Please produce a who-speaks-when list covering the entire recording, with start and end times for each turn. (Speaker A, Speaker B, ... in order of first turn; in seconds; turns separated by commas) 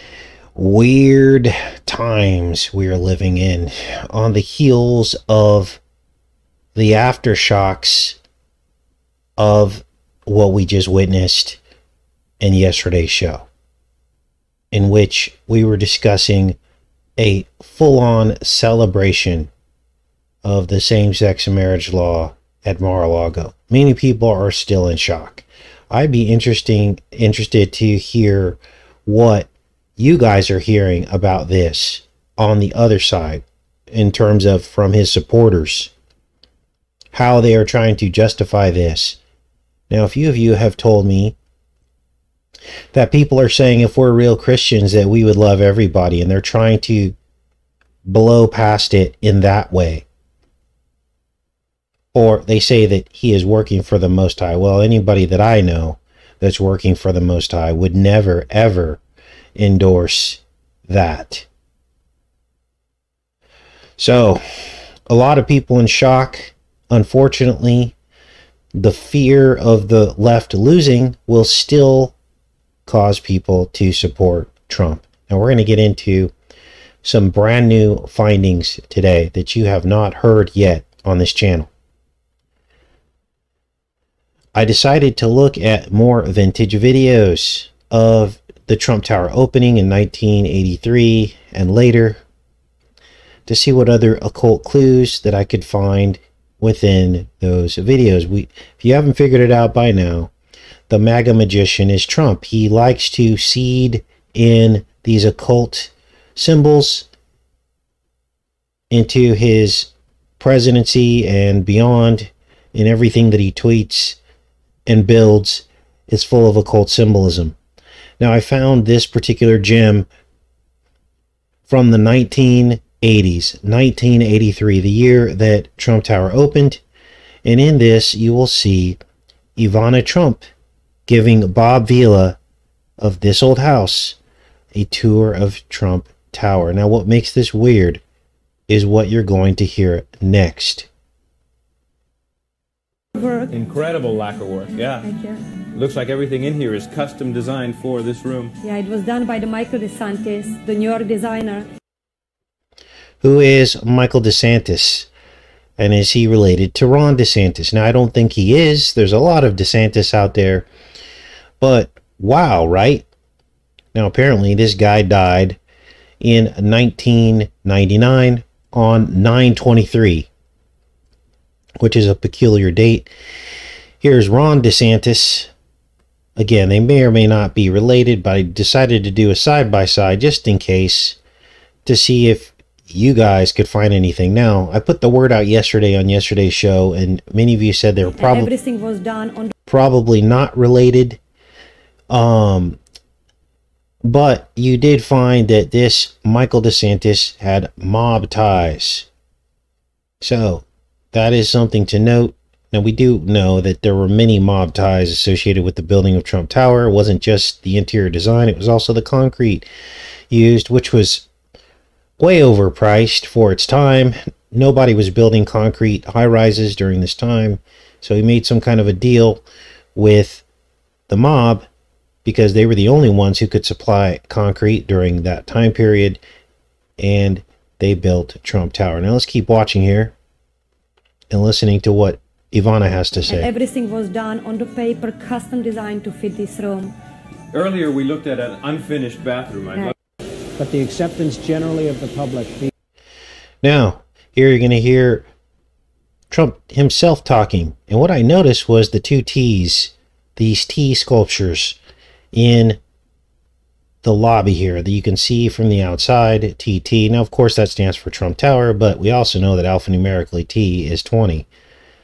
Speaker A: 0.5-5.8, Speaker A: 6.8-8.2, Speaker A: 9.4-11.6, Speaker A: 12.4-13.5, Speaker A: 14.7-16.6, Speaker A: 17.2-19.5, Speaker A: 20.4-35.9, Speaker A: 37.1-39.2, Speaker A: 39.9-41.4, Speaker A: 42.9-47.1, Speaker A: 48.0-50.0, Speaker A: 52.1-59.0, Speaker A: 59.6-61.5, Speaker A: 64.0-67.9, Speaker A: 68.8-72.1, Speaker A: 72.9-76.3, Speaker A: 77.0-81.7, Speaker A: 84.5-92.2, Speaker A: 93.5-100.3, Speaker A: 100.9-107.1, Speaker A: 108.9-114.2, Speaker A: 114.9-117.6, Speaker A: 118.2-120.1, Speaker A: 121.7-126.8, Speaker A: 127.5-129.0, Speaker A: 129.6-130.4, Speaker A: 131.1-132.4, Speaker A: 133.0-134.2, Speaker A: 134.7-138.0, Speaker A: 138.7-140.9, Speaker B: 143.1-143.5, Speaker C: 143.5-145.1, Speaker B: 145.0-145.4, Speaker C: 145.7-148.5, Speaker B: 148.6-151.7, Speaker A: 153.2-155.1, Speaker A: 155.8-160.7, Speaker A: 161.6-163.1, Speaker A: 163.9-165.6, Speaker A: 166.2-170.3, Speaker A: 171.8-173.1, Speaker A: 174.0-175.5, Speaker A: 176.3-181.2, Speaker A: 181.8-188.5, Speaker B: 188.2-189.5, Speaker A: 189.7-191.2, Speaker A: 192.1-192.8, Speaker A: 194.0-199.1, Speaker A: 200.2-209.7, Speaker A: 210.3-211.2, Speaker A: 212.2-219.4, Speaker A: 219.9-220.4, Speaker A: 221.1-221.7, Speaker A: 222.2-226.2, Speaker A: 227.0-230.1, Speaker A: 231.3-233.5, Speaker B: 233.3-236.9, Speaker C: 237.5-239.9, Speaker D: 240.6-242.7, Speaker A: 243.6-245.2, Speaker A: 246.3-251.8, Speaker A: 252.3-252.8, Speaker A: 254.0-261.5